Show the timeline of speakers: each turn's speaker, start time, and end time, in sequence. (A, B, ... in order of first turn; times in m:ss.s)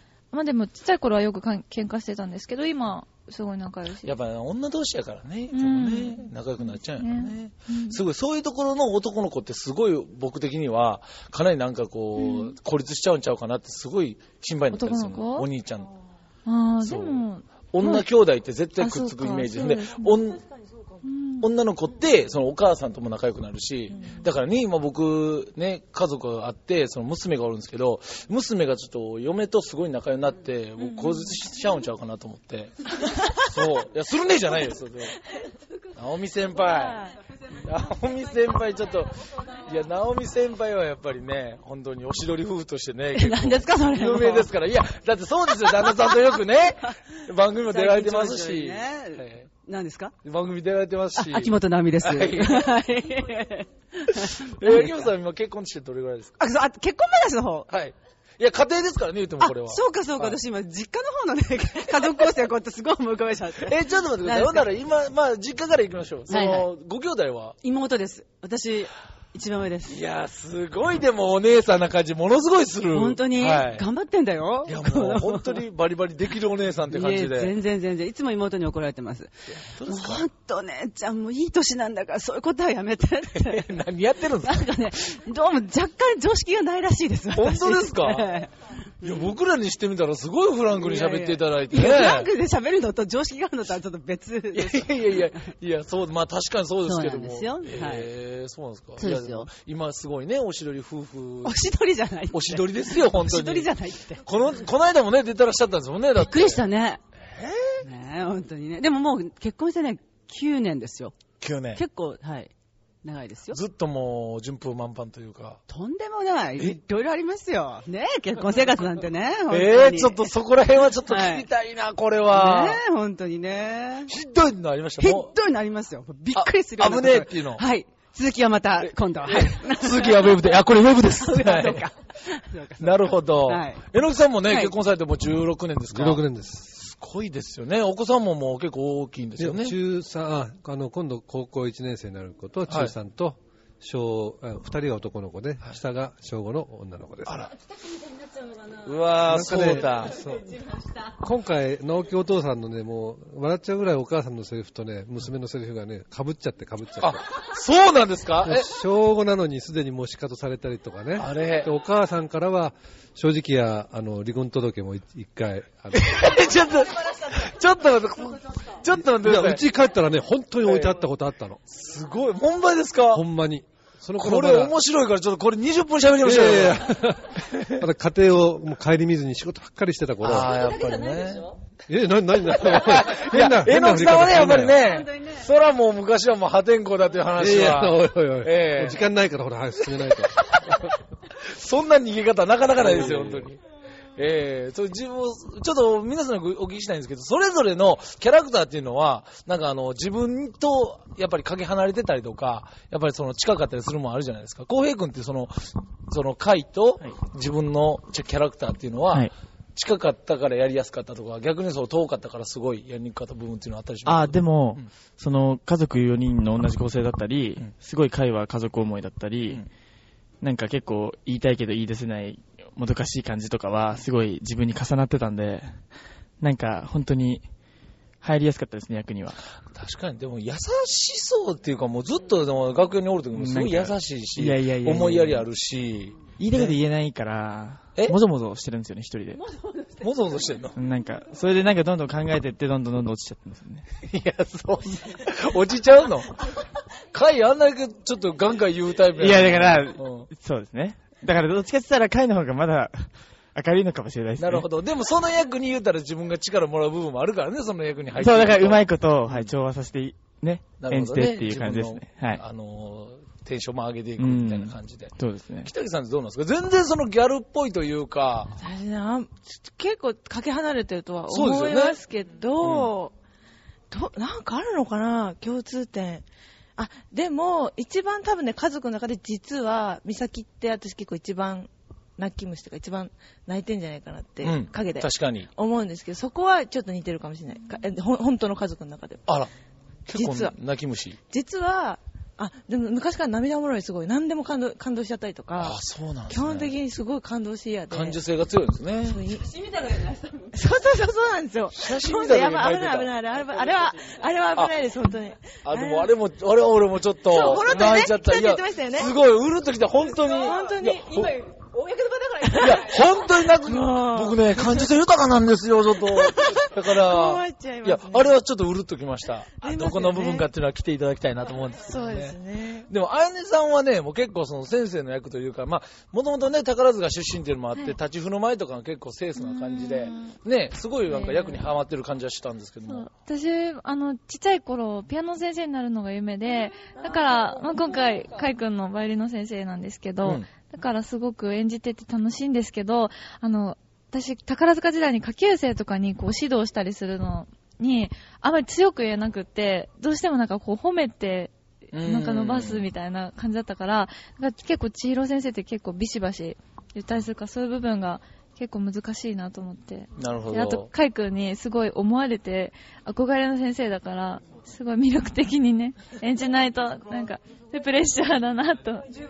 0:00.3-0:04.1 A
0:04.0-0:15.9 B
0:05.5-0:08.0 A
0:12.2-0:12.5 A
0:14.7-0:15.5 A
0:16.4-0:18.0 A
0:16.8-0:20.4 B
0:18.8-0:20.2 A
0:21.0-0:21.5 A
0:21.4-0:35.2 B
0:30.9-0:31.2 A
0:36.0-0:49.5 B
0:43.1-0:44.5 C
0:47.6-0:50.1 C
0:50.2-0:52.7 B
0:51.2-0:55.1 C
0:54.1-0:56.3 B
0:56.4-0:57.7 C
0:57.7-1:00.4 B
0:59.4-1:04.7 C
1:03.6-1:07.6 B
1:06.3-1:06.7 C
1:07.6-1:10.0 C
1:09.9-1:13.8 B
1:12.9-1:15.6 C
1:14.6-1:17.5 B
1:16.9-1:19.3 C
1:19.6-1:20.2 B
1:19.8-1:23.8 C
1:23.3-1:24.7 B
1:24.4-1:28.5 C
1:27.3-1:28.3 B
1:29.0-1:32.3 B
1:30.8-1:35.3 C
1:34.5-1:41.7 B
1:36.8-1:38.1 C
1:39.0-1:39.5 C
1:41.4-1:44.2 C
1:42.3-1:43.7 B
1:44.2-1:46.6 B
1:46.2-1:47.0 C
1:47.2-1:47.8 B
1:47.8-1:51.2 C
1:51.4-1:51.8 B
1:51.7-1:52.5 C
1:53.0-1:53.6 C
1:53.5-1:55.6 B
1:55.7-2:00.3 C
1:59.5-2:02.8 B
2:01.0-2:01.5 C
2:02.3-2:04.1 C
2:04.1-2:05.3 B
2:05.0-2:10.5 C
2:06.3-2:07.6 B
2:08.8-2:11.9 B
2:11.2-2:13.8 C
2:12.8-2:16.2 B
2:14.5-2:14.7 C
2:15.9-2:16.8 D
2:16.8-2:19.8 B
2:19.4-2:27.5 D
2:22.7-2:22.9 B
2:27.3-2:27.5 B
2:28.8-2:30.2 B
2:29.3-2:30.5 D
2:31.0-2:37.2 D
2:37.0-2:38.7 B
2:38.4-2:46.2 D
2:41.2-2:41.7 B
2:45.9-2:49.6 B
2:49.2-2:51.6 D
2:50.6-2:51.0 B
2:51.7-2:53.2 B
2:53.1-2:54.7 D
2:54.2-2:57.8 B
2:56.2-3:00.6 D
3:00.2-3:01.6 B
3:01.9-3:04.9 D
3:02.5-3:09.0 B
3:07.4-3:10.7 D
3:10.2-3:13.6 B
3:12.8-3:13.5 D
3:14.2-3:34.9 B
3:34.0-3:39.7 E
3:40.4-3:45.8 E
3:46.4-3:47.4 E
3:48.2-3:49.4 E
3:49.7-3:56.8 B
3:53.3-3:55.4 E
3:56.4-3:59.4 E
3:59.4-4:00.0 C
4:00.0-4:00.8 B
4:00.7-4:03.8 E
4:04.0-4:06.5 B
4:07.1-4:10.3 B
4:09.2-4:14.7 E
4:14.4-4:19.5 B
4:18.2-4:22.4 E
4:20.8-4:28.6 B
4:24.2-4:25.7 E
4:28.6-4:33.1 F
4:31.3-4:32.0 B
4:32.6-4:32.9 B
4:33.9-4:36.2 F
4:36.8-4:49.2 F
4:44.4-4:45.5 B
4:50.0-4:51.2 B
4:50.1-4:50.5 F
4:51.3-4:55.8 F
4:55.6-4:56.7 B
4:56.3-4:58.2 F
4:57.9-4:59.2 B
4:59.0-4:59.5 F
4:59.8-5:00.5 C
5:00.5-5:06.1 F
5:01.7-5:03.1 B
5:05.6-5:11.4 B
5:07.3-5:09.1 F
5:10.3-5:11.3 F
5:11.5-5:12.8 C
5:12.6-5:22.4 B
5:13.6-5:14.9 F
5:16.2-5:18.4 F
5:19.6-5:20.5 F
5:21.9-5:22.9 F
5:22.9-5:33.1 B
5:29.4-5:30.4 A
5:31.1-5:31.6 A
5:32.8-6:09.1 A
5:51.9-5:52.8 B
6:00.2-6:00.9 B